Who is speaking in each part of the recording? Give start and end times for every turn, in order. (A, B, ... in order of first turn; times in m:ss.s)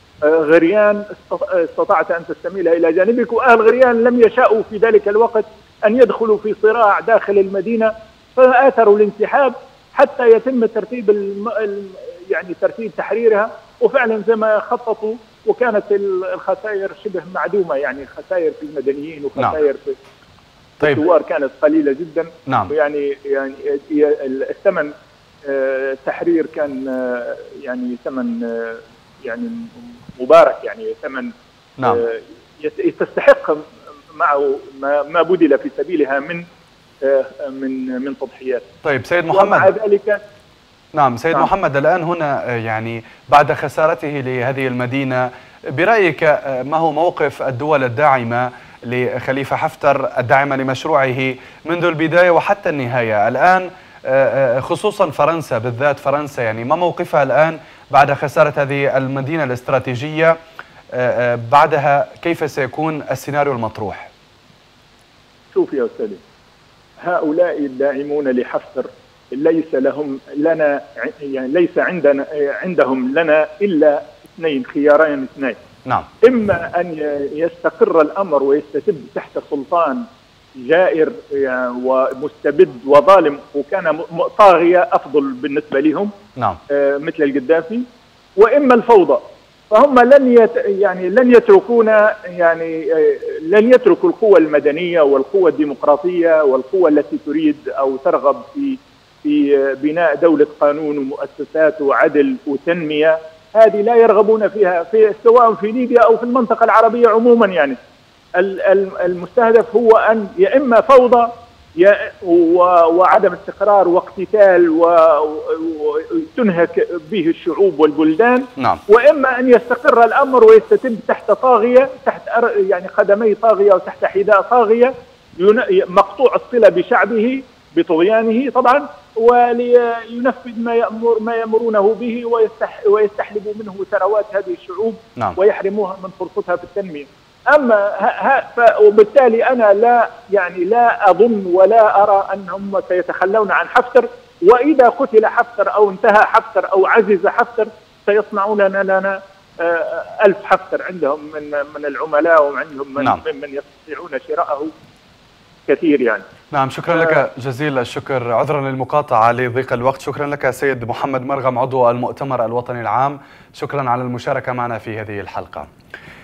0:00.2-0:20.0 A
0:20.8-0:24.9 A
0:22.5-0:22.7 B
0:25.4-0:36.4 A
0:37.0-0:38.6 A
0:38.8-0:39.7 B
0:39.3-0:40.2 A
0:40.9-1:00.4 B
1:00.9-1:04.1 B
1:05.5-1:06.2 A
1:07.0-1:15.6 A
1:16.2-1:26.1 A
1:26.7-1:27.8 A
1:28.4-1:47.8 A
1:48.4-2:34.7 A
1:58.6-1:58.8 B
2:35.7-2:36.2 A
2:36.5-2:45.7 B